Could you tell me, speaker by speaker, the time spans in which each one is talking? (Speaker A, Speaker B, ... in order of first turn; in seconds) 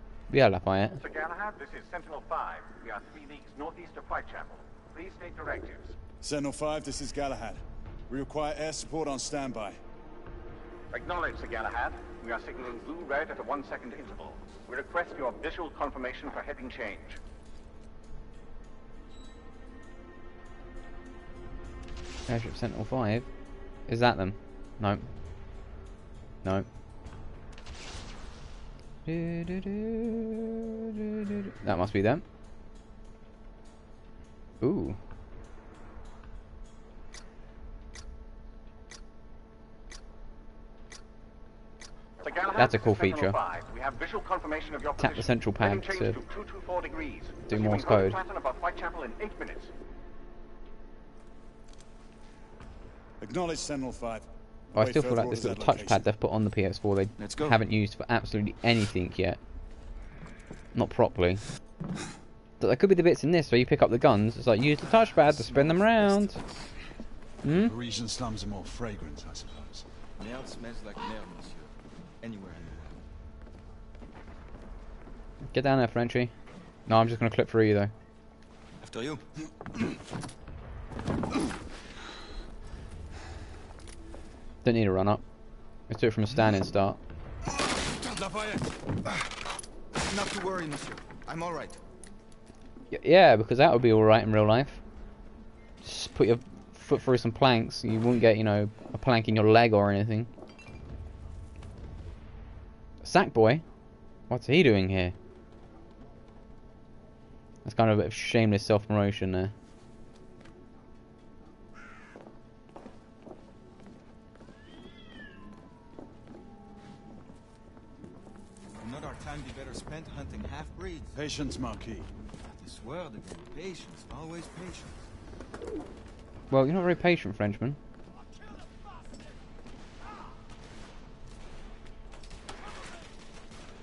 Speaker A: 0.3-1.0, 22.3-23.3, 23.9-25.1, 29.1-32.2, 34.6-35.0, 42.6-43.4, 45.0-46.2, 47.5-48.2, 54.8-59.4, 60.7-61.4, 62.6-66.4, 67.4-67.7, 75.5-76.3, 76.9-77.9, 84.6-85.2, 85.9-87.0, 92.9-94.8, 95.8-100.3, 103.0-103.6, 104.3-105.2, 107.7-109.5, 126.5-127.8
Speaker B: 1.0-6.0, 10.9-17.2, 42.2-49.7
Speaker C: 6.2-9.8, 53.2-56.1, 67.5-69.8, 121.2-122.1
Speaker D: 57.2-57.6, 70.2-73.0, 78.8-79.2, 90.1-91.8, 118.8-121.2, 122.4-125.0